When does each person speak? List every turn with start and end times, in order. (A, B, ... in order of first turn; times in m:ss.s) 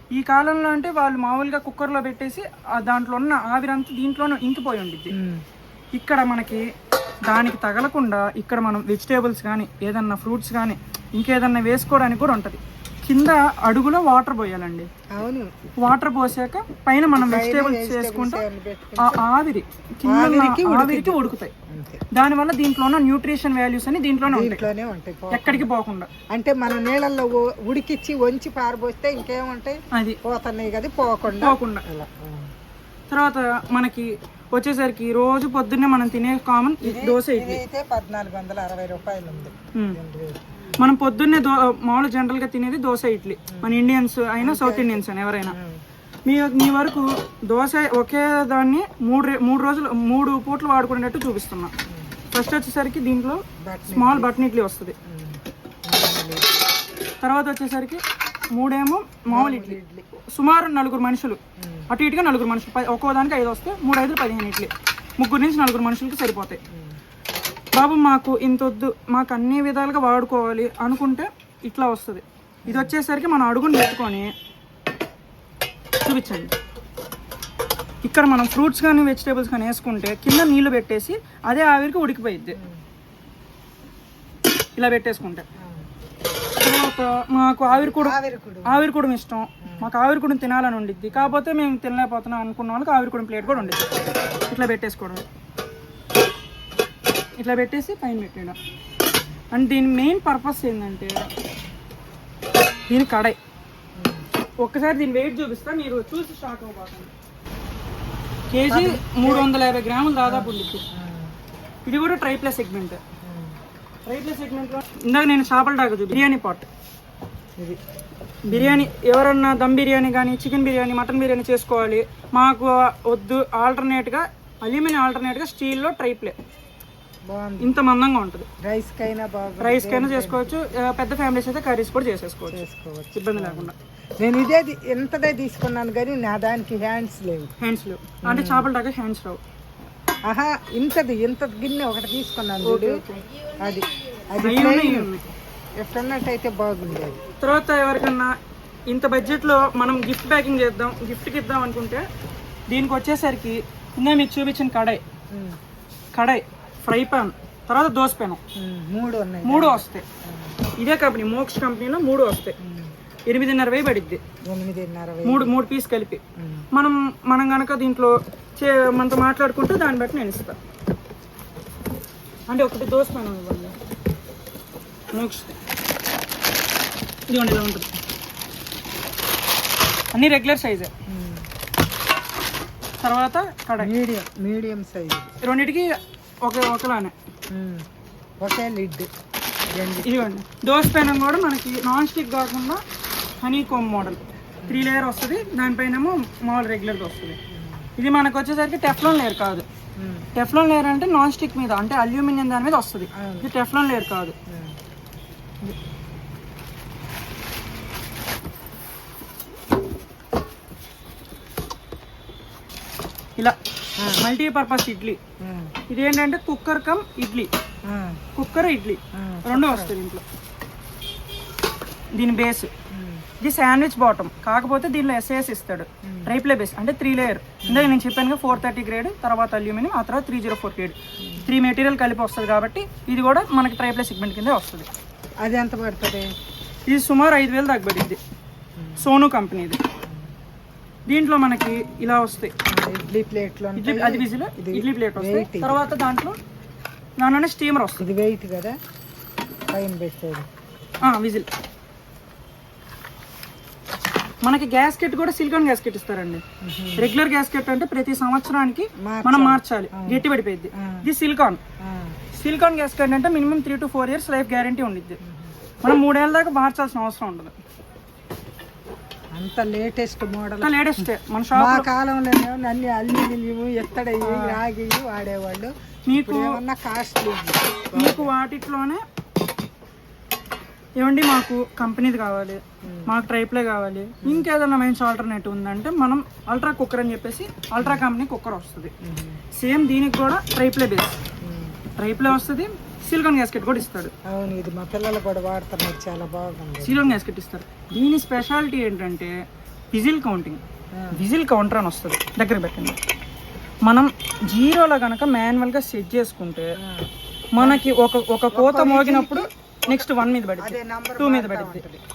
0:00.1-0:05.1 A
0:05.1-0:05.4 B
0:05.9-0:06.6 A
0:07.3-0:14.9 A
0:15.1-0:15.6 B
0:15.8-0:18.4 A
0:17.2-0:19.2 B
0:19.0-0:21.5 A
0:20.0-0:22.0 B
0:22.1-0:24.6 A
0:24.3-0:25.7 B
0:25.3-0:26.1 A
0:26.3-0:32.5 B
0:29.9-0:30.2 A
0:31.4-0:31.8 A
0:33.1-0:37.6 A
0:36.8-0:40.5 B
0:40.8-0:45.6 A
0:43.5-0:43.8 B
0:44.4-0:45.8 B
0:46.2-0:51.7 A
0:52.3-0:55.0 A
0:53.6-0:54.3 B
0:55.0-0:56.4 B
0:57.2-0:58.0 A
0:58.5-0:59.8 A
0:59.3-1:00.1 B
1:00.3-1:01.4 A
1:01.6-1:01.9 B
1:01.9-1:06.6 A
1:06.7-1:07.0 B
1:07.7-1:14.3 A
1:12.6-1:12.9 B
1:16.0-1:16.5 A
1:18.0-1:22.6 A
1:22.5-1:22.8 B
1:24.8-1:25.4 A
1:25.6-1:25.9 B
1:26.6-1:28.1 A
1:27.7-1:28.8 B
1:28.7-1:33.9 A
1:29.6-1:29.9 B
1:33.4-1:34.3 B
1:34.5-1:35.2 A
1:37.4-1:38.6 A
1:39.5-1:41.2 A
1:42.9-1:43.4 A
1:44.0-1:44.2 B
1:44.6-1:47.1 A
1:48.5-1:50.8 A
1:48.7-1:49.5 B
1:50.2-1:51.4 B
1:51.8-1:53.0 A
1:53.2-1:53.6 B
1:54.0-1:56.7 A
1:58.5-2:06.4 A
1:58.5-1:58.9 B
2:07.3-2:07.7 B
2:07.6-2:08.5 A
2:08.6-2:10.5 B
2:09.6-2:12.6 A
2:12.5-2:17.5 B
2:13.1-2:13.7 A
2:17.6-2:19.4 A
2:18.3-2:18.7 B
2:20.3-2:23.0 B
2:22.6-2:23.3 A
2:23.6-2:25.1 B
2:24.4-2:25.2 A
2:25.8-2:27.2 B
2:27.4-2:28.3 A
2:28.9-2:32.0 A
2:32.7-2:35.0 A
2:36.2-2:38.4 A
2:38.6-2:40.6 B
2:39.4-2:40.0 A
2:40.8-2:42.6 A
2:42.6-2:42.9 B
2:43.3-2:44.2 A
2:44.5-2:45.5 B
2:45.2-2:46.2 A
2:46.4-2:46.6 B
2:46.7-2:50.6 A
2:52.5-2:53.7 A
2:55.1-2:55.6 A
2:57.3-2:57.9 A
3:00.1-3:00.9 A
3:01.1-3:01.5 B
3:03.0-3:03.9 A
3:03.8-3:05.3 B
3:05.4-3:07.1 A
3:07.5-3:07.8 B
3:08.4-3:09.1 B
3:09.7-3:10.2 B
3:10.0-3:12.8 A
3:13.4-3:17.4 A
3:17.5-3:17.9 B
3:18.0-3:19.6 A
3:20.0-3:20.2 B
3:20.3-3:24.4 A
3:23.1-3:23.5 B
3:24.5-3:24.8 B
3:34.0-3:34.2 B
3:34.2-3:35.2 A
3:35.4-3:35.7 B
3:35.9-3:37.5 A
3:37.9-3:38.2 B
3:38.4-3:40.2 A
3:39.1-3:39.9 B
3:42.1-3:42.7 A
3:42.9-3:43.2 B
3:43.4-3:54.9 A
3:46.0-3:46.3 B
3:47.6-3:47.9 B
3:51.2-3:51.5 B
3:55.4-3:56.3 B
3:56.9-3:58.2 A
3:58.8-3:59.0 B
3:59.0-3:59.8 A
4:01.1-4:02.5 A
4:02.7-4:05.8 B
4:03.8-4:06.4 A
4:07.2-4:08.1 A
4:08.0-4:08.8 B
4:09.7-4:10.5 B
4:11.0-4:11.5 A
4:14.4-4:16.4 A
4:16.6-4:17.1 B
4:17.0-4:21.6 A
4:19.0-4:20.2 B
4:20.8-4:21.0 B
4:21.8-4:22.2 B
4:22.3-4:25.2 A
4:25.2-4:25.5 B
4:25.8-4:27.5 A
4:29.4-4:30.7 B
4:30.6-4:31.9 A
4:31.5-4:38.3 B
4:34.2-4:34.6 A
4:36.1-4:36.6 A
4:37.9-4:39.0 A
4:41.0-4:48.9 A
4:42.8-4:43.1 B
4:49.0-4:49.4 B
4:49.5-4:51.2 A
4:51.4-4:51.8 B
4:52.0-4:54.1 A
4:54.3-4:57.2 B
4:56.8-5:00.6 A
5:01.1-5:03.0 A
5:03.8-5:06.7 A
5:06.8-5:07.1 B
5:07.5-5:11.8 A
5:08.5-5:10.1 B
5:10.6-5:12.0 B